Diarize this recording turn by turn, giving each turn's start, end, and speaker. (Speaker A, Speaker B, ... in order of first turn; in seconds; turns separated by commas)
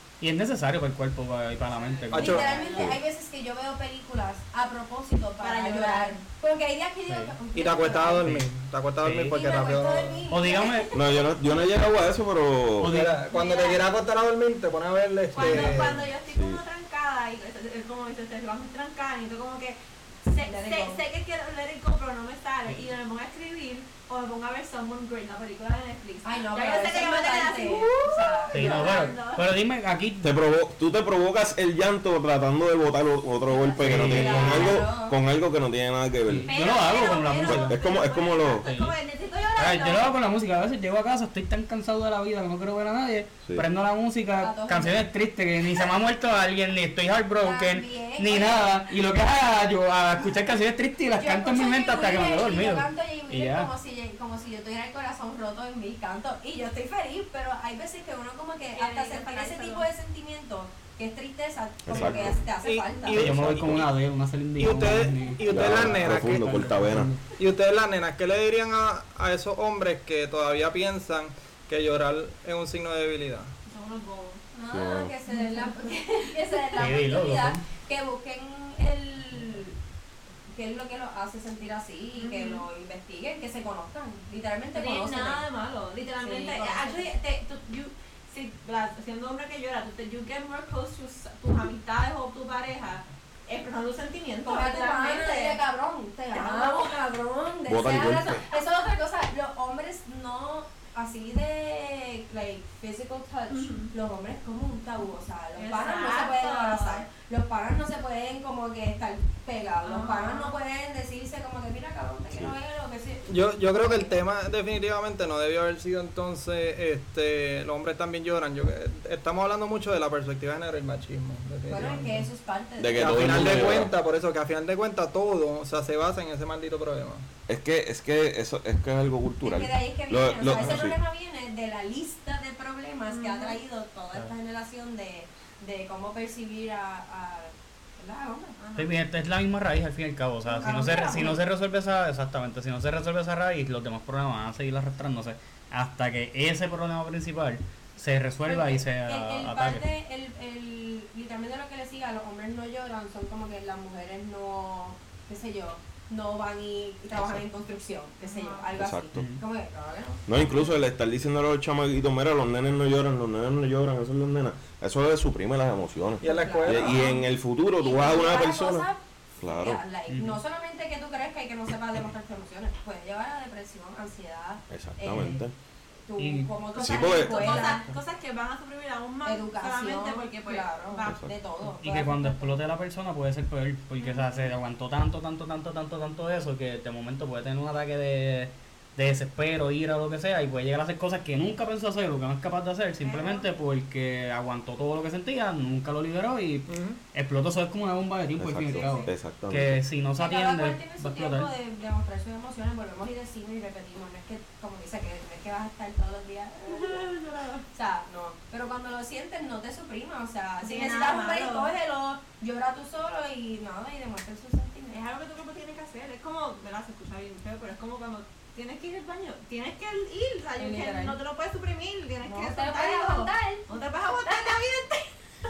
Speaker A: 0.2-2.5, Speaker B: 1.7-3.0, Speaker C: 2.1-2.8, Speaker D: 2.1-8.3, Speaker B: 5.4-6.2, Speaker A: 7.1-7.3, Speaker C: 7.5-10.3, Speaker A: 9.0-9.4, Speaker D: 9.3-11.3, Speaker A: 10.3-10.9, Speaker E: 10.9-12.9, Speaker A: 12.8-13.2, Speaker C: 12.8-16.1, Speaker B: 13.3-13.9, Speaker B: 15.3-29.5, Speaker E: 16.2-16.6, Speaker D: 20.4-21.1, Speaker D: 26.2-29.2, Speaker A: 28.5-30.3, Speaker E: 30.2-36.5, Speaker D: 33.5-35.2, Speaker A: 33.8-34.8, Speaker A: 36.3-37.8, Speaker B: 36.5-40.1, Speaker E: 37.5-38.7, Speaker A: 38.6-39.0, Speaker A: 39.6-53.7, Speaker D: 44.4-45.1, Speaker D: 47.4-48.9, Speaker D: 51.1-63.2, Speaker B: 58.7-59.9, Speaker E: 61.9-62.4, Speaker A: 61.9-62.4, Speaker C: 62.6-63.9, Speaker A: 63.1-67.2, Speaker C: 64.6-66.6, Speaker E: 65.5-67.1, Speaker C: 67.4-73.5, Speaker B: 73.7-74.4, Speaker D: 74.5-79.8, Speaker E: 74.7-75.1, Speaker A: 76.8-77.6, Speaker D: 80.5-85.5, Speaker B: 82.2-82.7, Speaker B: 84.7-95.6, Speaker D: 86.2-87.1, Speaker D: 94.4-114.2, Speaker B: 96.3-97.0, Speaker E: 97.7-98.5, Speaker B: 103.5-103.9, Speaker B: 105.6-107.1, Speaker B: 109.8-110.6, Speaker C: 113.3-122.3, Speaker D: 121.7-123.9, Speaker E: 122.8-123.9, Speaker C: 123.0-127.3, Speaker E: 127.5-131.0, Speaker D: 129.4-138.6, Speaker B: 133.1-133.6, Speaker B: 138.6-138.9, Speaker A: 138.8-149.8, Speaker B: 140.5-141.4, Speaker D: 140.6-141.4, Speaker D: 148.4-160.8, Speaker B: 158.2-158.8, Speaker E: 158.8-159.2, Speaker A: 159.1-159.4, Speaker E: 160.3-168.9, Speaker C: 166.2-167.2, Speaker D: 166.2-167.2, Speaker D: 167.8-175.5, Speaker E: 169.4-169.8, Speaker A: 170.1-170.4, Speaker E: 174.7-175.5, Speaker D: 176.1-177.9, Speaker A: 176.2-176.5, Speaker B: 176.7-181.2, Speaker E: 176.8-177.8, Speaker D: 179.2-182.6, Speaker E: 181.1-181.3, Speaker A: 181.7-201.5, Speaker B: 184.0-184.5, Speaker B: 193.0-193.5, Speaker C: 196.7-197.0, Speaker E: 198.4-199.8, Speaker D: 198.7-199.1, Speaker D: 200.2-207.1, Speaker B: 206.7-207.6, Speaker D: 207.7-215.0, Speaker B: 210.6-211.8, Speaker B: 214.9-225.1, Speaker D: 220.6-221.2, Speaker D: 222.2-224.6